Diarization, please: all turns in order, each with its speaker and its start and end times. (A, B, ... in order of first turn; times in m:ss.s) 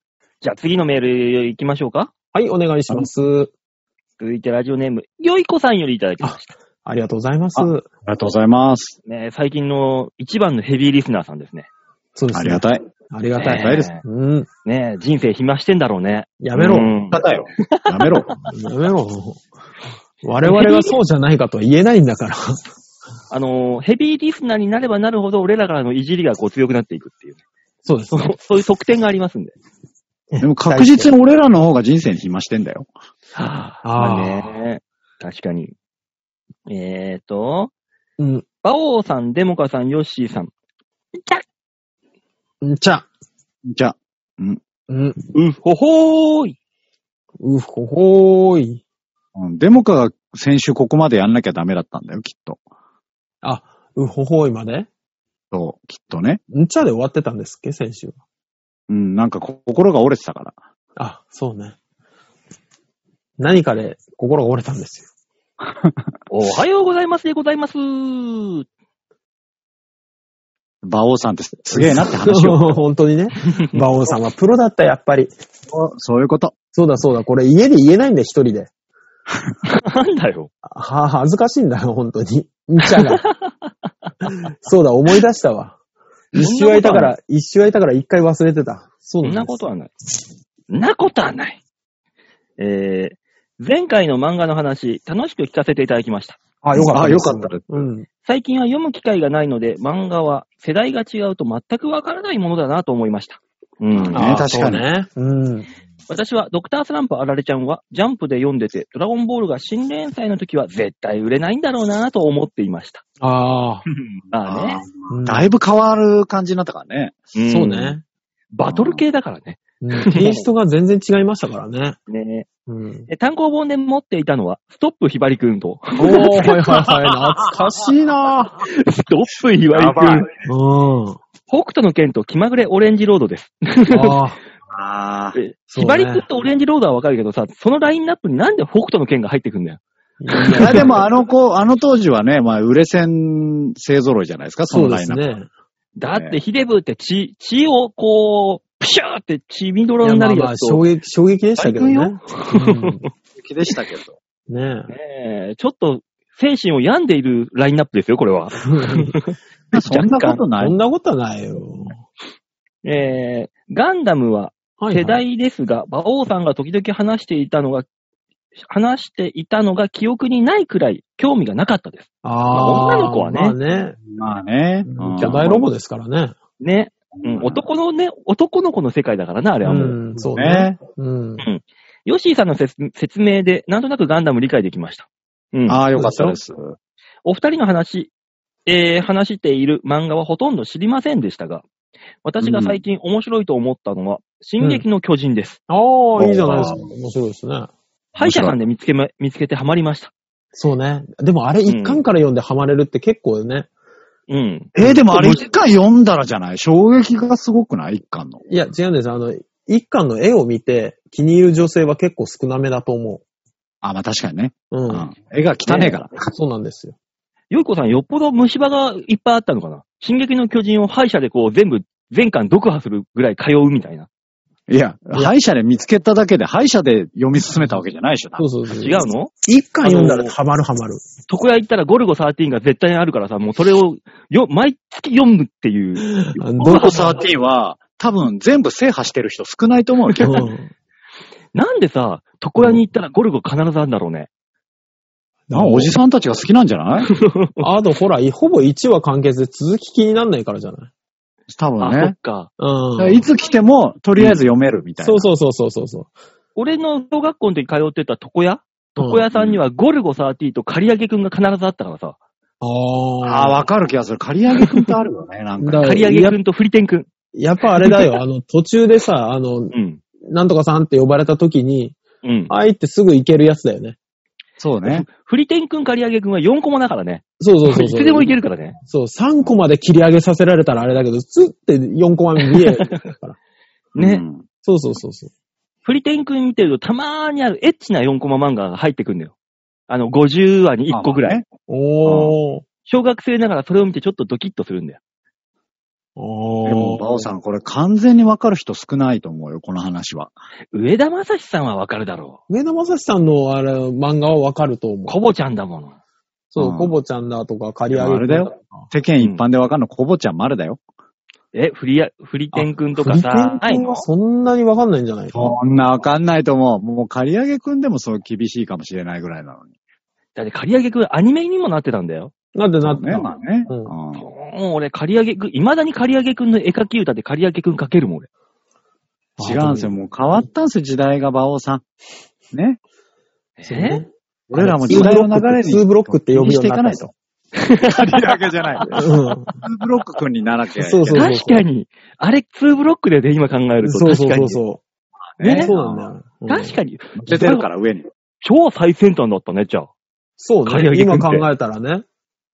0:00.4-0:02.1 A
0:02.3-0:03.5 B
0:04.2-0:06.5 A
0:06.2-0:07.9 B
0:07.6-0:09.0 C
0:09.0-0:11.7 A
0:12.1-0:14.5 B
0:12.3-0:12.8 C
0:13.4-0:14.0 A
0:13.5-0:13.9 C
0:14.6-0:18.4 A
0:16.4-0:17.0 B
0:16.7-0:18.4 C
0:18.5-0:19.4 B
0:20.2-0:22.6 B
0:20.4-0:21.0 A
0:23.3-0:27.4 A
0:27.8-0:28.4 B
0:28.1-0:29.5 A
0:30.3-0:31.1 B
0:30.4-0:32.9 C
0:33.4-0:35.7 A
0:33.8-0:34.6 B
0:36.7-0:37.7 A
0:38.2-0:38.4 B
0:38.6-0:40.5 A
0:41.1-0:41.4 A
0:42.6-0:43.1 B
0:43.7-0:44.6 C
0:44.9-0:45.2 B
0:45.3-0:46.6 A
0:47.4-0:48.8 B
0:49.4-0:52.6 C
0:53.4-0:54.9 B
0:55.5-0:56.4 C
0:56.5-0:58.2 B
0:58.9-1:00.6 C
1:01.0-1:01.8 B
1:03.4-1:05.1 B
1:05.6-1:06.0 C
1:06.3-1:08.7 A
1:10.8-1:12.8 C
1:11.7-1:15.3 B
1:13.4-1:13.8 A
1:15.7-1:16.6 C
1:16.7-1:18.7 B
1:19.7-1:20.5 A
1:20.6-1:23.2 B
1:22.9-1:24.3 A
1:24.6-1:25.8 B
1:26.3-1:29.6 B
1:26.4-1:27.1 A
1:29.2-1:29.9 A
1:30.7-1:31.6 A
1:32.6-1:36.4 A
1:36.6-1:38.1 B
1:36.7-1:37.9 C
1:38.2-1:44.2 A
1:44.0-1:44.8 C
1:44.1-1:45.7 B
1:46.1-1:53.0 A
1:53.2-1:53.8 B
1:54.3-1:54.8 A
1:54.4-1:57.2 C
1:55.1-1:55.5 B
1:57.4-1:58.0 A
1:57.5-1:58.0 B
1:58.5-2:00.5 A
1:58.7-1:59.0 C
1:59.8-2:02.0 B
2:02.1-2:02.5 A
2:02.7-2:03.1 B
2:03.1-2:06.9 A
2:06.0-2:08.6 B
2:08.6-2:10.3 A
2:09.7-2:10.4 C
2:10.4-2:11.2 B
2:11.5-2:14.2 A
2:13.9-2:14.4 B
2:14.7-2:15.4 C
2:15.4-2:19.8 A
2:15.7-2:16.2 B
2:20.2-2:21.0 B
2:20.3-2:20.9 A
2:20.5-2:25.4 C
2:24.7-2:25.5 B
2:26.0-2:30.8 A
2:26.0-2:26.4 C
2:30.0-2:33.0 B
2:31.6-2:33.1 A
2:33.4-2:34.2 C
2:34.5-2:34.9 B
2:34.9-2:40.4 A
2:38.6-2:39.1 B
2:39.7-2:40.8 C
2:40.6-2:42.0 B
2:42.8-2:47.9 A
2:44.8-2:45.2 B
2:48.7-2:53.6 A
2:52.2-2:54.0 B
2:54.1-2:55.7 C
2:54.9-2:56.4 B
2:56.6-3:00.0 A
2:57.2-2:57.6 C
2:59.6-3:01.4 B
3:00.2-3:00.8 C
3:01.4-3:05.8 A
3:05.7-3:06.8 C
3:06.0-3:06.4 B
3:07.2-3:08.1 A
3:08.7-3:11.6 A
3:12.2-3:15.6 A
3:12.4-3:12.8 C
3:14.6-3:14.8 B
3:15.7-3:17.7 B
3:16.2-3:16.8 C
3:18.2-3:20.1 A
3:18.2-3:18.6 C
3:20.5-3:23.7 B
3:21.7-3:22.0 A
3:24.3-3:24.7 A
3:24.8-3:25.4 B
3:24.8-3:28.4 C
3:28.5-3:33.2 B
3:33.8-3:36.2 C
3:34.7-3:35.1 B
3:35.7-3:37.0 B
3:37.5-3:44.1 A
3:44.7-3:48.4 C
3:48.4-3:51.0 B
3:48.7-3:50.3 A
3:51.3-3:57.2 A
3:56.1-3:57.2 B
3:56.6-4:00.5 C
4:00.2-4:00.7 B
4:01.5-4:04.3 A
4:05.5-4:05.9 B
4:05.5-4:07.1 C
4:07.1-4:07.7 A
4:07.6-4:10.9 B
4:11.5-4:12.1 C
4:11.8-4:12.5 A
4:12.6-4:13.3 B
4:13.0-4:15.3 C
4:15.0-4:16.1 B
4:16.6-4:22.2 A
4:19.0-4:19.3 B
4:19.3-4:19.6 C
4:22.6-4:23.7 B
4:23.2-4:26.0 C
4:25.6-4:26.4 B
4:25.8-4:27.1 A
4:27.3-4:32.0 B
4:27.8-4:28.1 A
4:29.7-4:30.0 A
4:32.2-4:32.5 A
4:32.5-4:34.0 B
4:34.6-4:35.1 C
4:34.8-4:38.8 A
4:37.4-4:38.3 B
4:38.9-4:43.4 B
4:42.5-4:43.0 A
4:44.0-4:44.2 A
4:44.0-4:44.4 C
4:44.6-4:45.3 B
4:45.8-4:49.3 A
4:49.9-4:51.4 A
4:50.9-4:51.4 C
4:51.7-4:52.6 B
4:52.0-4:52.3 C
4:52.9-4:55.0 A
4:56.2-4:57.3 B
4:56.6-5:00.3 C
5:00.7-5:02.4 A
5:02.5-5:05.2 B
5:05.1-5:06.0 A
5:06.5-5:08.9 B
5:06.6-5:07.0 C
5:07.9-5:10.8 C
5:11.5-5:14.0 A
5:12.5-5:15.6 B
5:15.3-5:19.7 C
5:20.4-5:22.3 A
5:22.6-5:23.9 B
5:22.8-5:24.3 C
5:24.2-5:28.3 A
5:29.4-5:29.9 B
5:29.4-5:31.8 C
5:32.5-5:32.8 C
5:33.6-5:34.0 A
5:33.7-5:37.1 B
5:34.5-5:37.1 C
5:37.6-5:39.6 A
5:37.8-5:41.3 C
5:39.0-5:39.5 B
5:40.8-5:41.7 B
5:41.1-5:44.6 A
5:43.8-5:44.8 B
5:45.4-5:46.1 C
5:45.4-5:45.7 A
5:45.6-5:46.8 B
5:46.5-5:47.7 A
5:47.2-5:48.1 C
5:48.4-5:49.9 A
5:50.4-5:52.0 B
5:50.6-5:51.4 A